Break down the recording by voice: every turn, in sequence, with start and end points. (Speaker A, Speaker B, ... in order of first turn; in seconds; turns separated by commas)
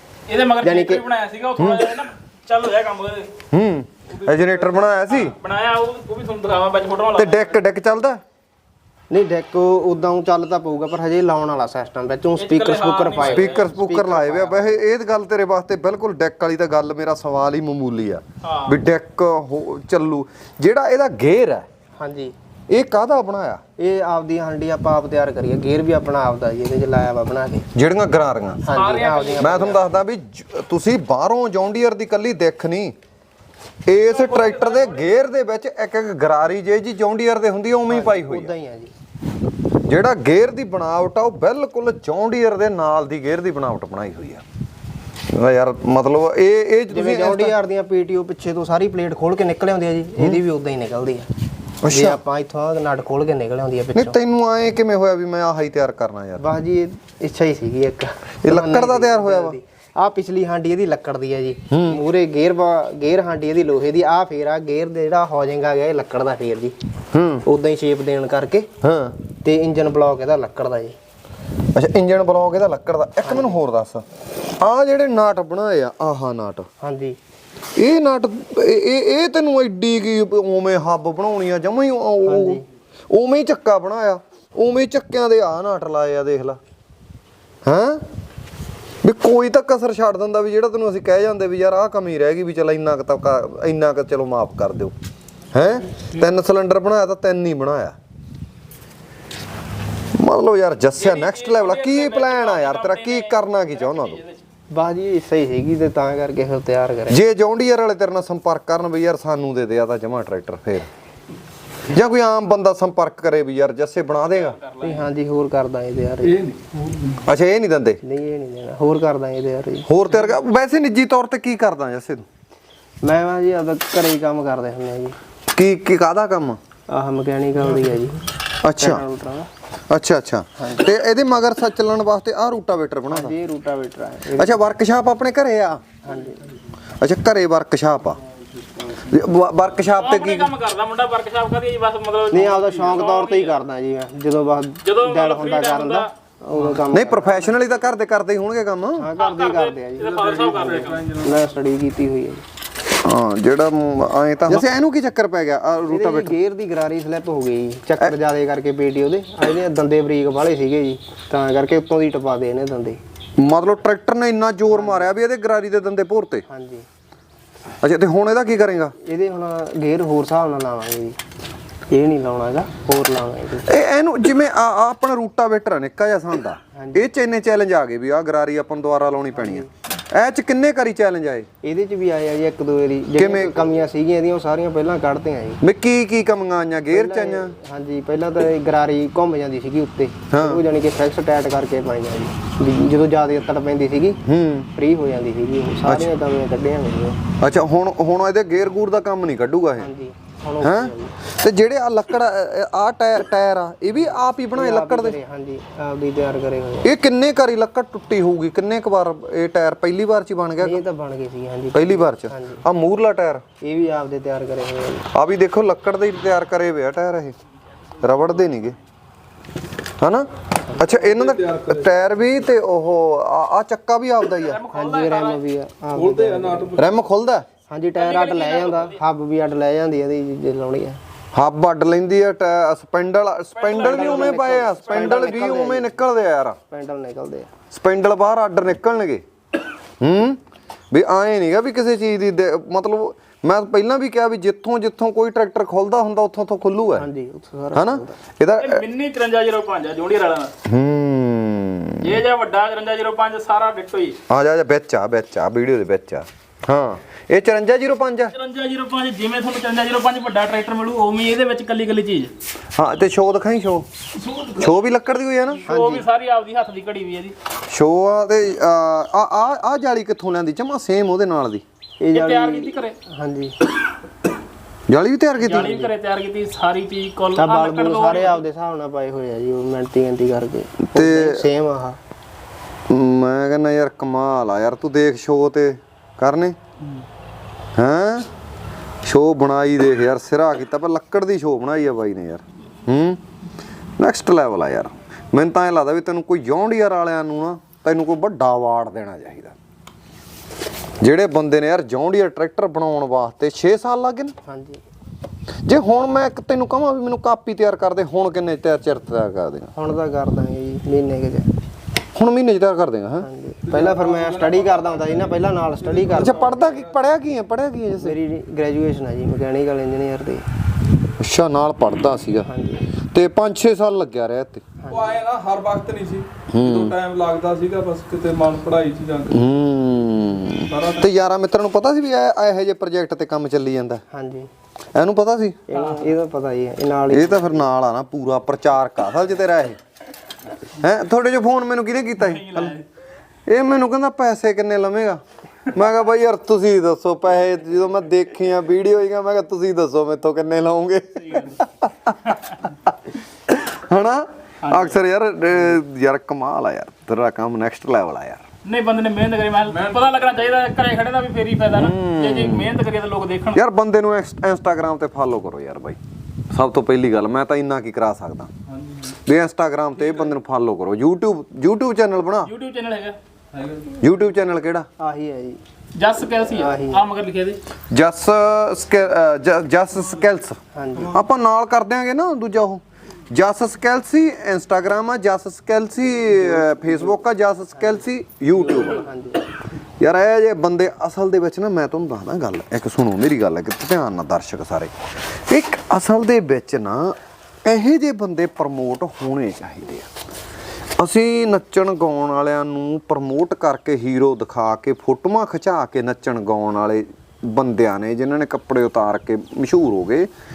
Speaker A: 0.3-3.3, Speaker B: 0.6-1.1, Speaker C: 1.6-1.9, Speaker C: 3.5-5.4, Speaker A: 4.1-7.6, Speaker C: 7.2-8.2, Speaker B: 9.1-14.8, Speaker A: 12.4-13.7, Speaker C: 13.2-21.7, Speaker A: 18.4-18.8, Speaker B: 22.0-22.3, Speaker C: 22.7-23.6, Speaker B: 23.8-27.7, Speaker C: 27.7-28.6, Speaker B: 28.6-29.9, Speaker A: 28.7-29.6, Speaker C: 29.4-33.0, Speaker C: 33.9-38.5, Speaker A: 34.1-35.2, Speaker B: 37.9-38.9, Speaker C: 39.8-44.4, Speaker C: 45.3-47.5, Speaker B: 46.9-51.3, Speaker C: 51.8-52.2, Speaker B: 51.9-54.2, Speaker C: 54.0-56.4, Speaker B: 56.4-66.8, Speaker C: 58.4-59.6, Speaker C: 61.7-62.0, Speaker C: 67.1-67.5, Speaker B: 67.5-68.7, Speaker C: 68.8-69.2, Speaker B: 69.4-71.0, Speaker C: 71.7-74.0, Speaker B: 73.2-73.6, Speaker C: 74.6-76.7, Speaker B: 76.8-77.2, Speaker C: 77.8-86.6, Speaker B: 82.2-82.7, Speaker C: 87.7-88.0, Speaker C: 89.0-94.9, Speaker C: 95.5-98.0, Speaker C: 100.2-104.2, Speaker A: 101.0-104.4, Speaker B: 104.7-107.2, Speaker C: 107.1-110.9, Speaker C: 111.9-114.6, Speaker A: 114.4-115.1, Speaker B: 114.8-116.5, Speaker D: 116.4-117.2, Speaker C: 117.2-118.0, Speaker B: 118.0-119.9, Speaker C: 119.9-122.3, Speaker B: 123.0-125.2, Speaker C: 125.5-126.6, Speaker B: 126.9-128.3, Speaker C: 128.6-129.0, Speaker B: 128.8-129.5, Speaker C: 129.9-133.3, Speaker B: 130.6-130.9, Speaker B: 133.1-134.6, Speaker C: 134.4-135.8, Speaker B: 136.0-136.5, Speaker C: 137.0-138.2, Speaker C: 138.9-140.5, Speaker A: 139.8-143.6, Speaker B: 142.3-147.6, Speaker A: 144.8-146.1, Speaker C: 146.9-149.1, Speaker B: 149.0-152.4, Speaker A: 149.2-151.1, Speaker D: 150.0-151.4, Speaker C: 153.0-156.4, Speaker B: 155.9-163.0, Speaker C: 163.4-166.4, Speaker B: 164.7-165.2, Speaker B: 166.5-166.9, Speaker C: 167.8-169.0, Speaker B: 169.0-171.2, Speaker B: 171.9-173.7, Speaker C: 173.7-181.5, Speaker B: 176.7-177.1, Speaker B: 179.3-179.7, Speaker B: 181.6-185.6, Speaker C: 183.2-183.6, Speaker C: 185.6-187.6, Speaker B: 186.9-194.2, Speaker C: 190.3-190.6, Speaker C: 194.2-194.7, Speaker B: 194.8-197.2, Speaker C: 195.9-196.1, Speaker C: 197.4-199.9, Speaker B: 199.8-201.2, Speaker C: 200.6-205.2, Speaker B: 204.1-206.9, Speaker C: 206.8-210.8, Speaker B: 210.6-212.7, Speaker C: 211.7-213.4, Speaker B: 213.6-215.1, Speaker C: 215.1-217.4, Speaker C: 218.0-218.8, Speaker C: 220.0-224.6, Speaker D: 221.0-222.0, Speaker A: 224.4-225.4, Speaker B: 224.7-226.8, Speaker D: 225.9-226.9, Speaker C: 226.8-227.5, Speaker B: 227.7-231.0, Speaker A: 228.0-229.0, Speaker C: 231.3-236.6, Speaker A: 233.6-235.3, Speaker B: 233.7-236.0, Speaker B: 236.7-237.5, Speaker C: 237.7-239.2, Speaker C: 240.0-240.4, Speaker C: 240.9-247.1, Speaker B: 247.0-248.2, Speaker C: 247.8-248.8, Speaker A: 248.6-250.5, Speaker C: 250.7-252.2, Speaker A: 252.0-254.2, Speaker C: 254.3-258.3, Speaker A: 258.3-262.3, Speaker C: 262.8-263.9, Speaker A: 264.2-264.6, Speaker C: 264.4-265.6, Speaker A: 265.6-267.4, Speaker B: 265.7-266.1, Speaker C: 267.7-271.6, Speaker B: 272.0-273.6, Speaker A: 272.1-273.0, Speaker C: 274.9-275.9, Speaker A: 275.4-278.4, Speaker B: 277.4-282.0, Speaker C: 280.8-281.4, Speaker C: 282.9-286.6, Speaker C: 287.8-288.3, Speaker C: 289.1-293.2, Speaker C: 294.0-299.6, Speaker C: 301.0-304.4, Speaker B: 304.4-304.8, Speaker C: 305.7-309.7, Speaker B: 309.8-311.5, Speaker C: 312.1-313.3, Speaker B: 313.2-316.7, Speaker D: 313.6-315.3, Speaker D: 315.9-316.9, Speaker C: 316.1-318.2, Speaker B: 318.0-320.4, Speaker C: 321.2-322.5, Speaker B: 322.4-322.9, Speaker C: 323.0-324.7, Speaker B: 324.8-325.2, Speaker D: 324.9-329.4, Speaker C: 326.5-327.0, Speaker C: 329.3-334.0, Speaker D: 330.7-331.1, Speaker B: 334.1-334.5, Speaker C: 334.9-335.6, Speaker B: 335.7-337.7, Speaker A: 335.8-336.1, Speaker C: 337.1-339.8, Speaker C: 340.7-342.8, Speaker A: 342.2-342.9, Speaker C: 343.5-358.4, Speaker A: 351.2-351.6, Speaker A: 354.6-355.0, Speaker A: 358.6-363.6, Speaker C: 361.7-362.7, Speaker C: 363.5-366.0, Speaker C: 366.5-368.5, Speaker C: 369.1-372.5, Speaker A: 372.4-373.2, Speaker D: 373.5-374.0, Speaker C: 374.0-374.9, Speaker B: 375.0-375.6, Speaker A: 375.9-377.6, Speaker B: 376.3-377.0, Speaker C: 377.9-389.1, Speaker B: 380.7-381.2, Speaker B: 388.9-389.4, Speaker C: 390.0-394.9, Speaker C: 395.5-400.1, Speaker C: 401.0-410.3